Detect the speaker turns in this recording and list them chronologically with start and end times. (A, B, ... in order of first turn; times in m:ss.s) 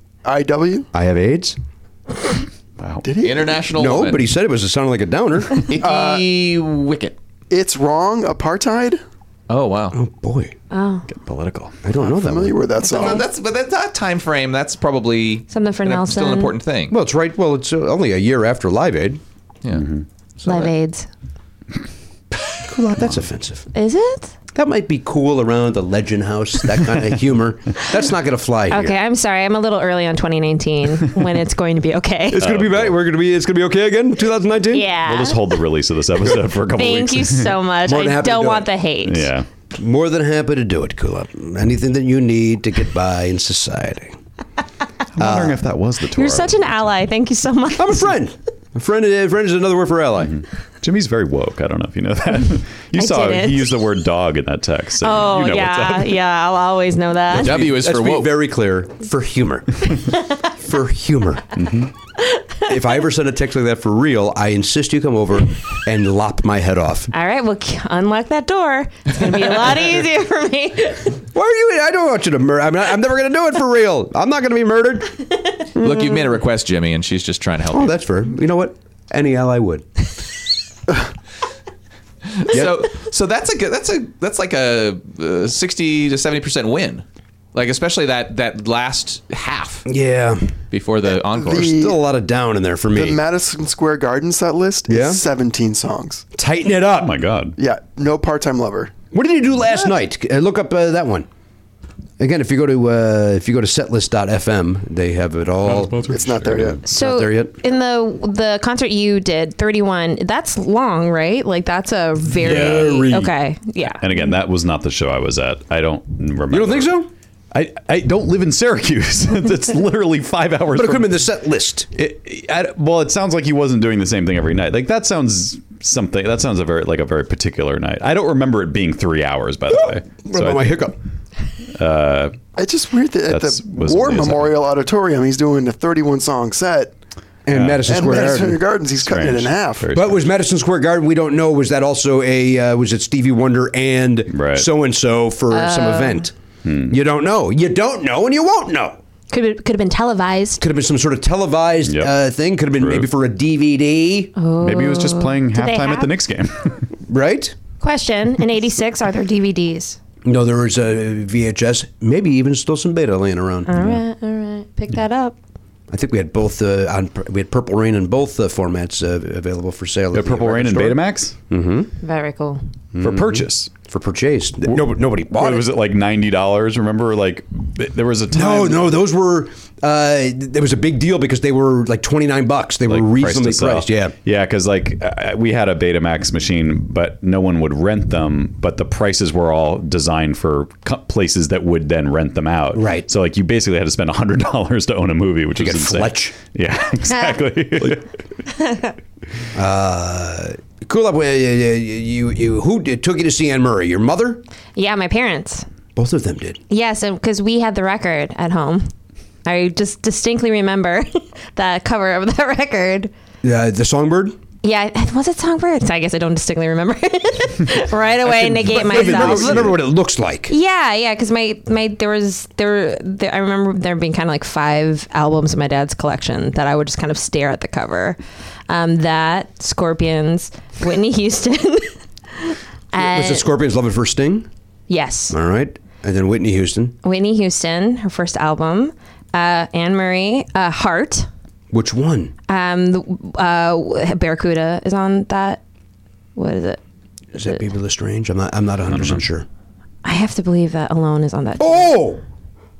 0:00.2-0:00.9 A
0:00.9-0:01.6 B
0:02.8-0:03.1 C
0:03.0-0:03.6 A
0:03.2-0:04.2 D
0:03.7-0:05.6 B
0:05.6-0:07.2 D
0:05.8-0:06.2 A
0:07.5-0:09.0 A
0:09.5-0:10.0 D
0:09.9-0:10.5 B
0:10.7-0:11.1 E
0:11.1-0:11.8 C
0:11.8-0:12.6 B
0:12.0-0:13.2 A
0:12.8-0:13.2 E
0:12.8-0:16.9 D
0:15.5-0:16.6 E
0:16.9-0:19.2 B
0:19.7-0:20.0 C
0:20.4-0:21.1 E
0:22.6-0:23.7 B
0:23.7-0:24.3 E
0:24.5-0:29.0 B
0:28.7-0:32.5 E
0:32.3-0:34.9 B
0:32.4-0:33.0 C
0:34.7-0:35.6 E
0:35.0-0:37.6 C
0:36.7-0:39.3 E
0:37.8-0:38.7 B
0:39.0-0:39.5 C
0:39.7-0:44.2 B
0:45.2-0:46.9 C
0:45.2-0:45.6 B
0:46.0-0:48.2 E
0:47.8-0:50.4 B
0:50.3-0:56.2 C
0:53.0-0:53.7 E
0:55.0-0:57.6 E
0:57.3-1:00.0 B
0:57.3-0:58.4 D
1:00.6-1:01.5 B
1:01.6-1:01.9 C
1:02.6-1:07.1 B
1:07.1-1:11.2 E
1:11.3-1:15.2 B
1:15.8-1:17.9 D
1:17.7-1:19.9 B
1:22.3-1:29.8 D
1:22.5-1:22.7 B
1:29.9-1:30.5 B
1:30.7-1:31.8 D
1:31.3-1:32.0 A
1:31.6-1:33.2 B
1:32.9-1:36.2 A
1:34.9-1:35.2 B
1:36.4-1:37.2 B
1:37.0-1:37.6 C
1:37.6-1:38.9 A
1:39.1-1:41.3 B
1:42.2-1:46.1 B
1:45.6-1:46.8 C
1:46.0-1:46.8 A
1:46.6-1:47.6 B
1:46.8-1:54.3 E
1:52.4-1:53.3 B
1:52.4-1:52.9 C
1:53.8-1:57.0 C
1:56.5-1:57.1 B
1:57.5-2:01.2 C
2:00.7-2:01.9 B
2:01.9-2:10.8 C
2:09.7-2:11.0 B
2:11.8-2:12.4 C
2:12.6-2:16.9 A
2:13.3-2:14.6 C
2:17.4-2:18.6 B
2:17.5-2:18.1 C
2:17.8-2:19.9 A
2:19.0-2:20.3 C
2:20.0-2:26.3 B
2:24.3-2:24.7 C
2:25.5-2:26.3 E
2:26.6-2:27.0 C
2:26.9-2:29.0 B
2:29.3-2:30.6 E
2:30.6-2:34.3 B
2:31.9-2:32.1 C
2:32.7-2:33.1 C
2:34.4-2:36.1 E
2:34.6-2:36.9 C
2:37.1-2:37.6 B
2:37.8-2:40.0 E
2:40.2-2:43.8 B
2:43.7-2:45.4 E
2:43.8-2:44.0 C
2:45.9-2:51.9 B
2:50.1-2:51.4 C
2:52.0-2:52.6 E
2:52.9-2:55.7 B
2:53.0-2:53.7 C
2:54.7-2:58.9 C
2:58.3-3:04.1 B
3:02.9-3:18.1 C
3:12.7-3:13.1 B
3:15.6-3:16.4 B
3:17.1-3:17.4 E
3:18.6-3:18.9 E
3:19.5-3:24.4 B
3:24.8-3:25.7 E
3:26.0-3:26.6 B
3:26.7-3:28.9 E
3:29.5-3:33.1 E
3:33.4-3:34.4 B
3:34.6-3:39.8 E
3:38.2-3:40.5 B
3:39.2-3:39.7 C
3:40.5-3:48.2 E
3:48.7-3:53.5 E
3:53.0-3:54.5 B
3:54.9-3:55.4 E
3:55.3-3:57.0 B
3:57.0-4:01.3 E
4:01.7-4:02.3 B
4:02.5-4:05.6 E
4:06.4-4:06.8 E
4:07.4-4:09.5 B
4:08.9-4:09.2 C
4:10.0-4:12.0 E
4:11.6-4:12.2 B